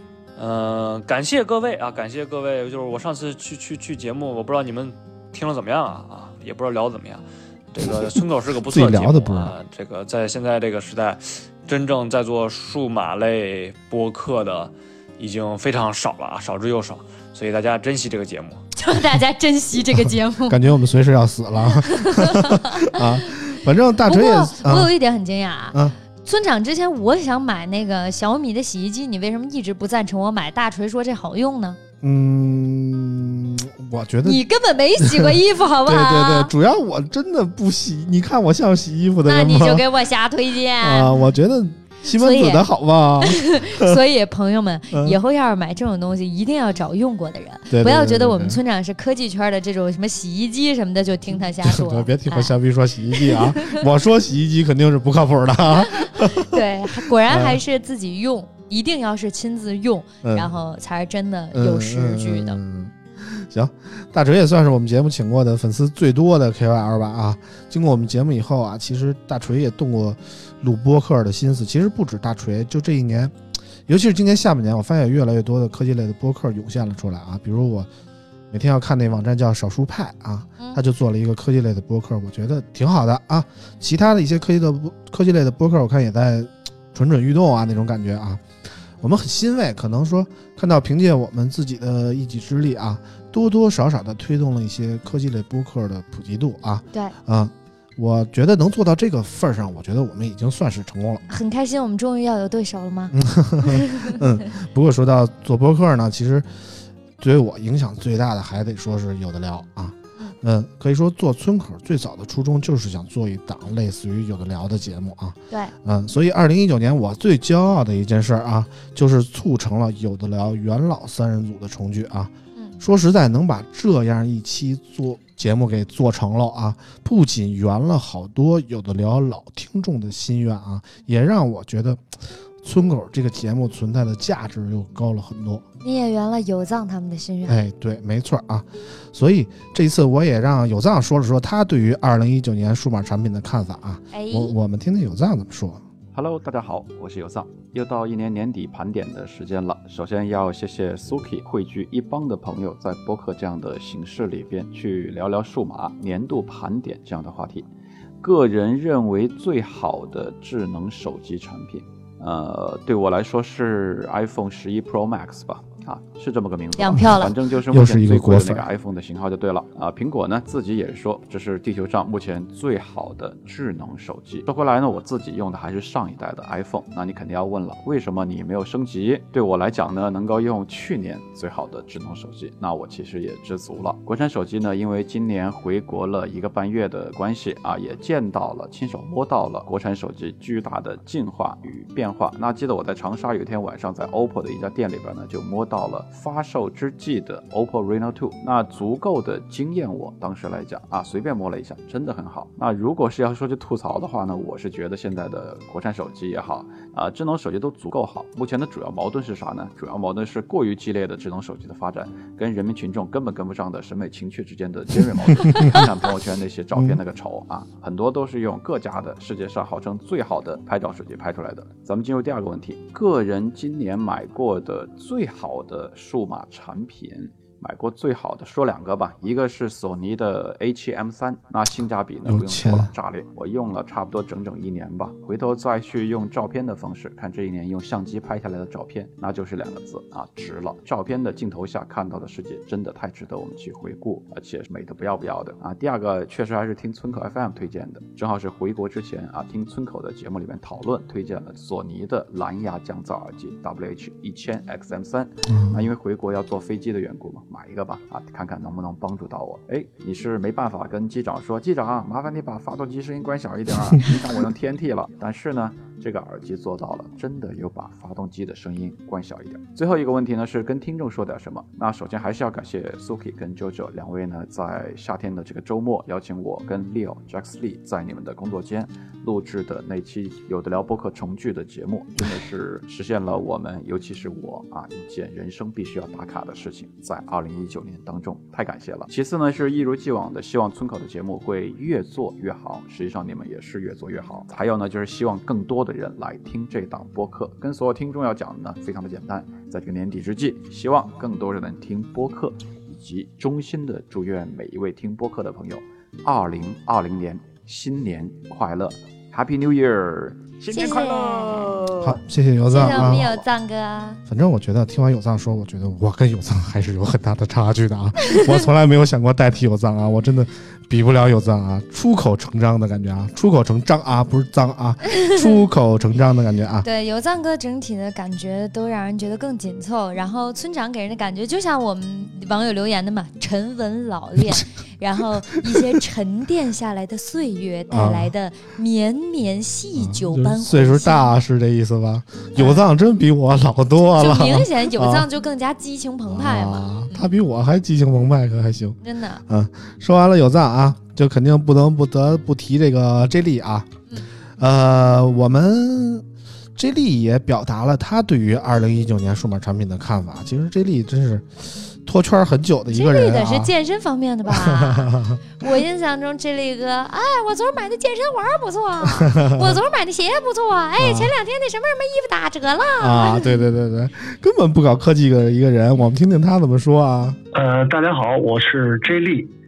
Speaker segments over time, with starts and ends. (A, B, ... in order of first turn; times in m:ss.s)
0:00.4-0:18.6 A
0:07.8-0:09.5 B
0:18.8-0:20.6 C
0:20.5-0:24.9 B
0:22.0-0:22.6 C
0:24.1-0:31.8 C
0:32.0-0:34.4 B
0:34.2-0:36.5 C
0:35.0-0:39.8 B
0:39.2-0:41.1 C
0:40.8-0:44.0 B
0:42.1-0:42.6 C
0:43.2-0:52.5 C
0:44.9-0:45.2 B
0:47.7-0:48.6 B
0:51.6-0:56.6 B
0:53.2-0:53.8 C
0:56.4-1:02.6 C
0:57.2-0:57.6 B
1:00.2-1:00.5 B
1:01.5-1:13.4 B
1:13.9-1:17.9 B
1:18.5-1:28.4 B
1:29.0-1:41.2 B
1:41.3-1:43.1 C
1:43.1-1:46.5 B
1:43.6-1:44.0 C
1:47.2-2:15.6 B
2:15.8-2:17.6 C
2:17.5-2:25.8 B
2:24.1-2:24.5 C
2:26.1-2:37.7 D
2:38.2-5:11.7 D
2:46.8-2:47.3 C
2:46.9-2:48.7 B
3:52.2-3:52.9 B
4:15.5-4:15.8 B
5:10.7-5:11.5 C
5:12.0-5:13.4 B
5:12.7-5:14.2 C
5:14.2-5:26.9 B
5:26.8-5:41.4 C
5:37.9-5:38.3 B
5:39.9-5:45.3 B
5:42.6-5:42.8 C
5:44.2-5:47.3 C
5:46.3-5:49.0 B
5:49.0-5:49.4 C
5:49.5-5:53.9 B
5:54.6-6:03.7 B
6:02.9-6:05.1 C
6:04.5-6:05.4 B
6:05.6-6:13.7 C
6:09.0-6:09.8 B
6:11.0-6:11.3 B
6:13.0-6:17.4 B
6:17.5-6:19.5 E